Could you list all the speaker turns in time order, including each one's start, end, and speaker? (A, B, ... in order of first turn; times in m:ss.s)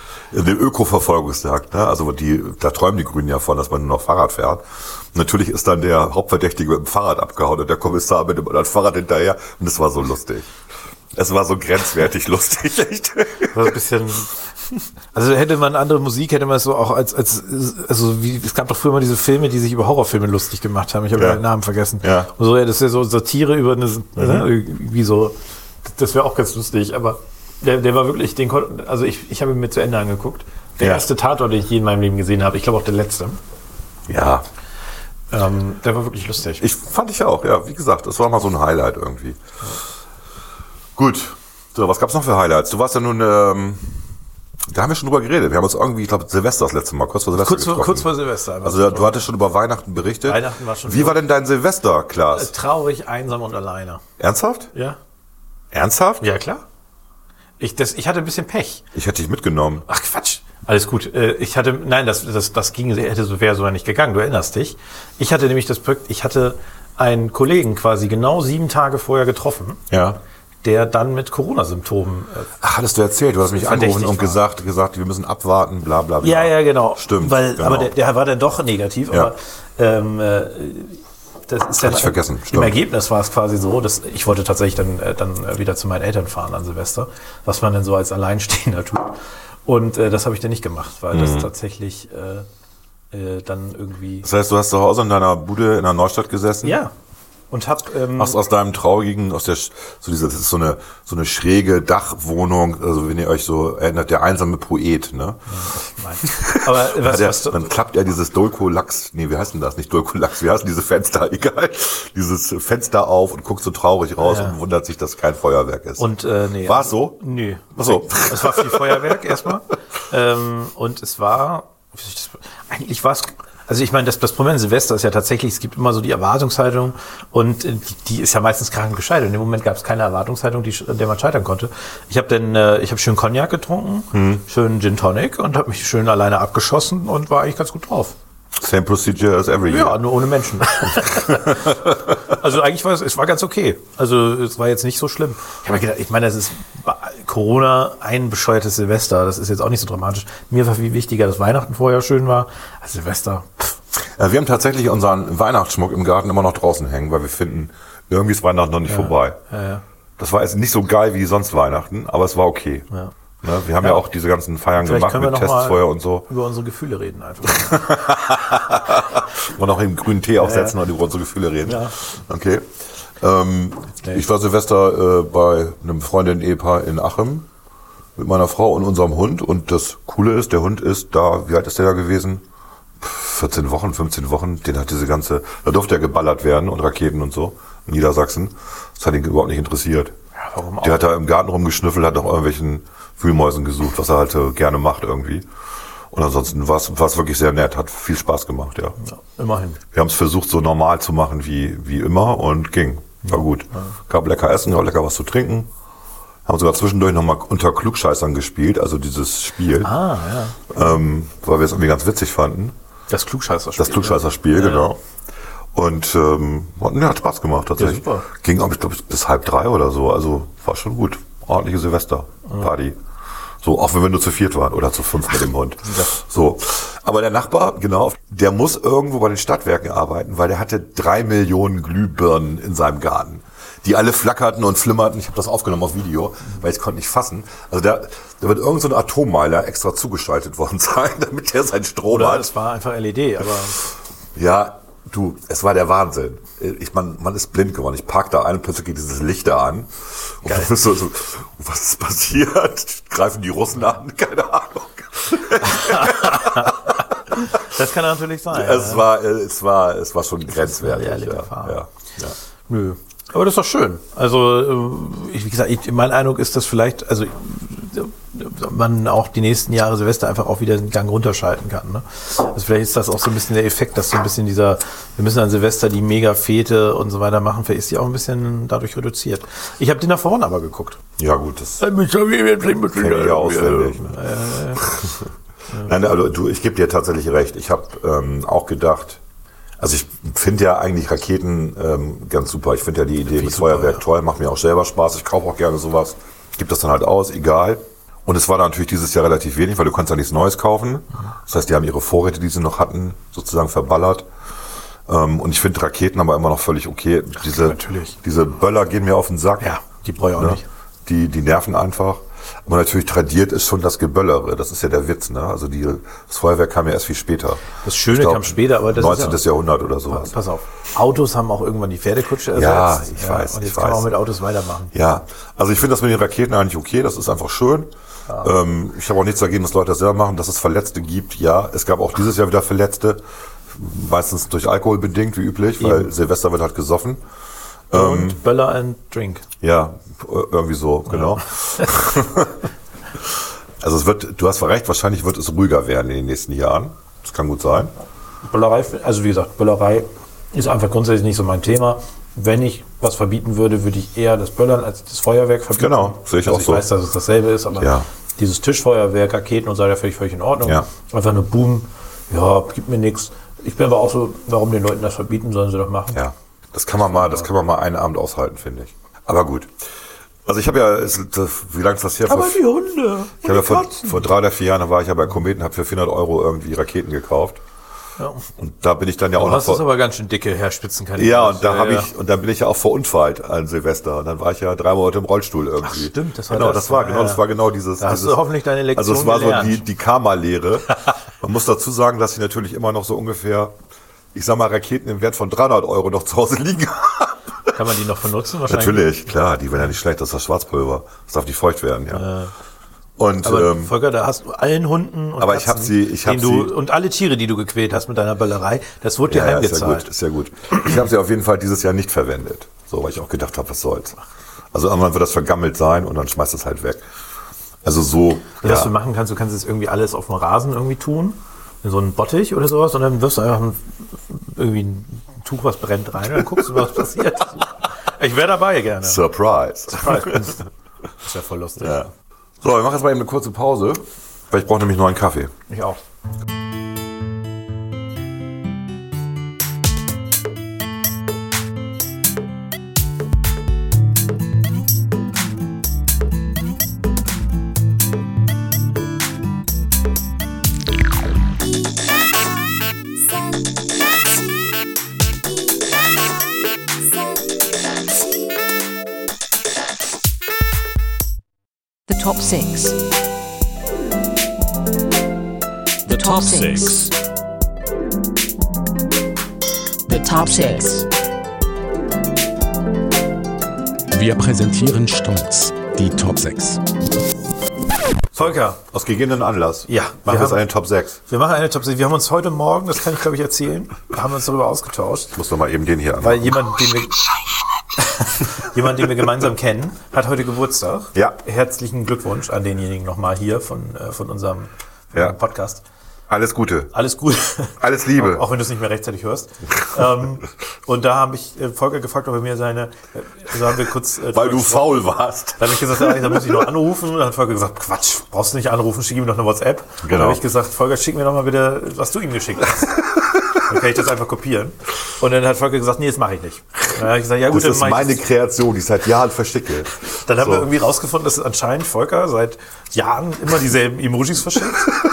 0:00.3-0:10.5 A
0:11.1-0:13.8 A
0:13.5-0:14.4 B
0:15.1-0:33.4 B
0:21.1-0:21.4 A
0:22.0-0:22.3 A
0:24.2-0:24.5 A
0:30.8-0:31.1 A
0:34.1-0:34.4 A
0:35.3-0:36.6 B
0:36.6-0:39.4 A
0:41.0-0:44.0 A
0:44.7-0:48.1 A
0:47.3-0:49.1 B
0:48.6-0:52.5 A
0:50.2-0:51.2 B
0:52.3-0:54.0 B
0:54.2-0:54.7 A
0:55.7-0:56.3 A
0:56.2-0:56.6 B
0:57.6-0:58.8 B
0:58.9-0:59.8 A
0:59.9-1:09.8 B
1:09.9-1:10.2 A
1:10.6-1:12.5 B
1:12.6-1:17.9 A
1:13.6-1:14.4 B
1:16.2-1:32.4 B
1:21.8-1:22.8 A
1:31.1-1:31.5 A
1:33.1-1:34.3 B
1:34.2-1:36.8 A
1:36.6-1:36.9 B
1:37.5-1:38.4 B
1:38.2-1:45.4 A
1:45.5-1:47.7 B
1:46.2-1:57.2 A
1:54.2-1:54.6 B
1:56.0-2:18.1 B
1:57.7-1:59.4 A
2:14.1-2:14.4 A
2:18.6-2:20.0 A
2:19.7-2:33.8 B
2:21.0-2:22.0 A
2:34.0-2:39.4 A
2:38.9-2:39.8 B
2:40.2-2:42.9 A
2:43.4-2:46.3 A
2:44.8-2:48.0 B
2:47.5-2:52.7 A
2:50.4-2:50.8 B
2:51.6-2:51.9 B
2:53.2-2:57.5 A
2:58.2-3:02.4 A
3:03.0-3:10.1 A
3:10.4-3:11.1 B
3:10.8-3:15.5 A
3:16.1-3:19.0 A
3:19.0-3:19.8 B
3:19.9-3:25.7 A
3:23.2-3:23.9 B
3:26.4-3:30.0 A
3:29.8-3:30.7 B
3:30.7-3:32.7 A
3:33.1-3:34.9 B
3:33.8-3:35.0 A
3:35.7-3:43.0 A
3:37.8-3:38.3 B
3:43.6-4:02.5 A
3:45.8-3:46.1 B
4:02.1-4:03.8 B
4:04.3-4:17.0 A
4:15.8-4:16.8 B
4:17.3-4:19.0 B
4:18.5-4:22.3 A
4:20.5-4:21.8 B
4:22.7-4:41.0 B
4:41.2-4:41.9 A
4:41.8-4:44.8 B
4:42.9-4:44.2 A
4:44.8-4:45.2 A
4:45.8-4:49.2 A
4:49.8-5:04.3 A
4:53.3-4:54.0 B
5:05.1-5:09.7 A
5:07.4-5:08.2 B
5:09.6-5:10.6 B
5:10.4-5:20.3 A
5:17.8-5:19.4 B
5:20.1-5:24.9 B
5:22.5-5:24.1 A
5:24.9-5:37.2 A
5:35.8-5:36.1 B
5:37.9-5:38.4 A
5:37.9-5:39.4 B
5:39.6-5:42.6 A
5:43.2-5:47.9 A
5:48.5-6:06.2 B
5:55.8-5:56.8 A
5:57.8-5:58.1 A
6:06.1-6:09.7 A
6:10.4-6:12.6 A
6:12.2-6:14.3 B
6:13.4-6:17.6 A
6:18.2-6:18.4 B
6:18.6-6:19.8 A
6:19.4-6:22.1 B
6:21.2-6:33.7 A
6:25.8-6:27.4 B
6:28.0-6:29.8 B
6:34.3-6:37.8 A
6:37.7-6:39.1 B
6:38.6-6:42.2 A
6:42.1-6:42.5 B
6:43.2-6:43.9 A
6:43.4-6:50.1 B
6:45.4-6:46.7 A
6:49.2-6:54.2 A
6:54.7-6:57.0 A
6:57.8-6:58.9 A
6:58.6-7:09.2 B
7:06.6-7:06.9 A
7:09.0-7:10.6 A
7:09.9-7:10.6 B
7:11.2-7:12.0 B
7:11.8-7:12.1 A
7:12.6-7:15.5 A
7:15.7-7:16.0 B
7:42.1-7:43.0 C
7:46.1-7:47.1 D
7:46.1-7:47.0 C
7:50.1-7:51.0 C
7:54.1-7:56.8 D
7:58.3-8:01.2 A
7:58.3-7:58.8 B
7:59.9-8:00.6 B
8:01.3-8:05.3 B
8:05.3-8:06.6 A
8:06.2-8:07.3 B
8:08.0-8:15.8 B
8:16.3-8:16.9 A
8:16.9-8:25.0 B
8:17.8-8:18.4 A
8:24.3-8:26.6 A
8:25.6-8:33.0 B
8:30.0-8:30.4 A
8:33.6-8:38.2 B
8:37.5-8:40.7 A
8:40.2-8:45.0 B